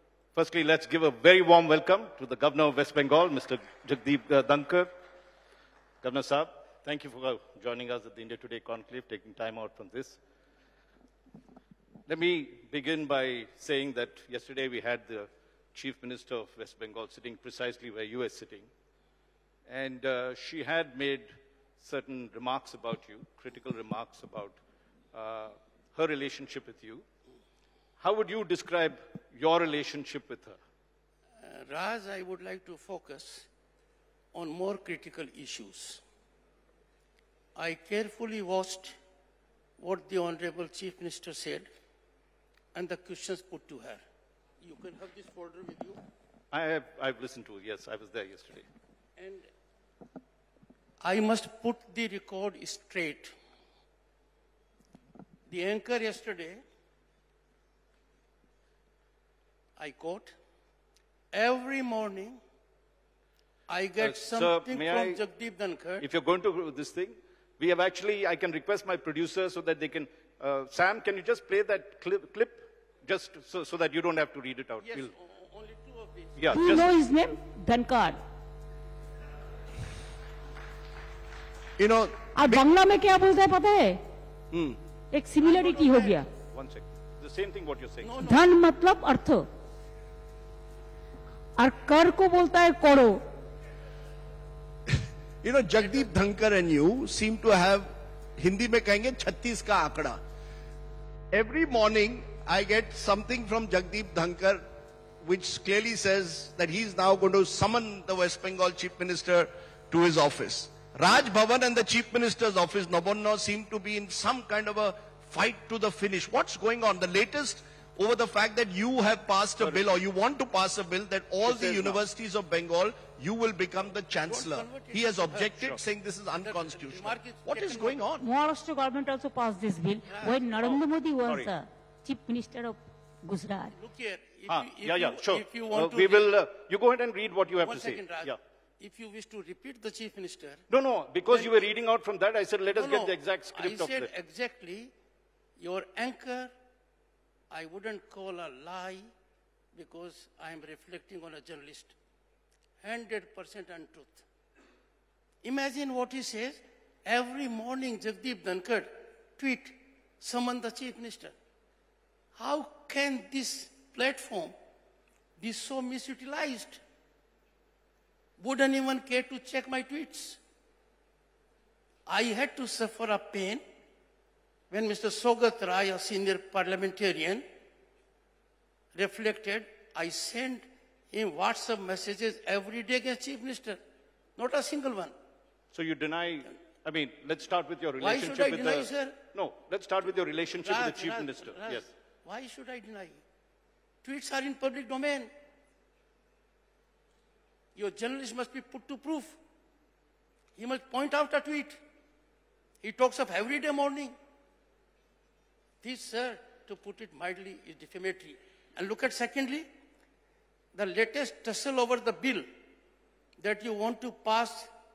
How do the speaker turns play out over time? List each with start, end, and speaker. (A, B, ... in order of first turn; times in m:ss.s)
0:00.3-0:04.9 A
0:06.0-0:10.2 A
0:12.1-0:18.7 A
0:19.7-0:24.6 A
0:25.1-0:27.0 A
0:28.0-0:30.6 A
0:31.4-0:33.5 B
0:34.3-0:36.0 B
0:37.6-0:39.0 B
0:39.8-0:41.7 B
0:42.7-0:44.0 B
0:44.6-0:46.0 B
0:46.5-0:48.7 A
0:49.2-0:49.5 B
0:51.0-0:53.3 B
0:55.5-0:56.6 B
0:59.8-1:00.3 B
1:01.3-1:02.4 B
1:03.7-1:06.0 B
1:04.0-1:05.2 A
1:06.0-1:15.1 A
1:14.8-1:16.8 B
1:16.4-1:17.0 A
1:16.5-1:18.2 C
1:21.8-1:22.7 D
1:22.4-1:24.0 C
1:24.5-1:24.8 D
1:25.1-1:26.3 C
1:25.4-1:26.3 B
1:26.5-1:28.1 A
1:28.0-1:28.5 B
1:28.2-1:29.4 C
1:31.6-1:33.2 C
1:34.9-1:40.2 D
1:41.3-1:44.6 D
1:45.2-2:08.3 D
1:59.6-1:59.9 A
2:01.4-2:02.0 A
2:04.2-2:05.8 B
2:06.4-2:08.0 B
2:08.2-2:13.7 C
2:10.1-2:10.4 B
2:10.6-2:11.5 A
2:13.7-2:16.3 B
2:14.5-2:18.4 A
2:17.6-2:20.6 B
2:20.7-2:24.1 A
2:21.3-2:21.7 B
2:22.7-2:24.9 B
2:25.6-2:26.5 B
2:27.5-2:29.1 B
2:29.7-2:31.9 B
2:32.8-2:34.2 B
2:35.4-2:41.3 B
2:42.4-2:44.5 B
2:45.4-2:46.8 B
2:48.4-2:50.4 B
2:52.0-2:53.6 B
2:54.7-2:57.4 B
2:58.9-3:03.8 B
3:04.4-3:05.1 B
3:05.7-3:11.9 A
3:08.0-3:09.2 B
3:10.6-3:13.2 B
3:14.0-3:15.3 B
3:17.7-3:19.4 B
3:20.6-3:21.8 B
3:22.8-3:24.1 B
3:25.8-3:29.7 B
3:30.7-3:32.5 B
3:33.4-3:34.7 B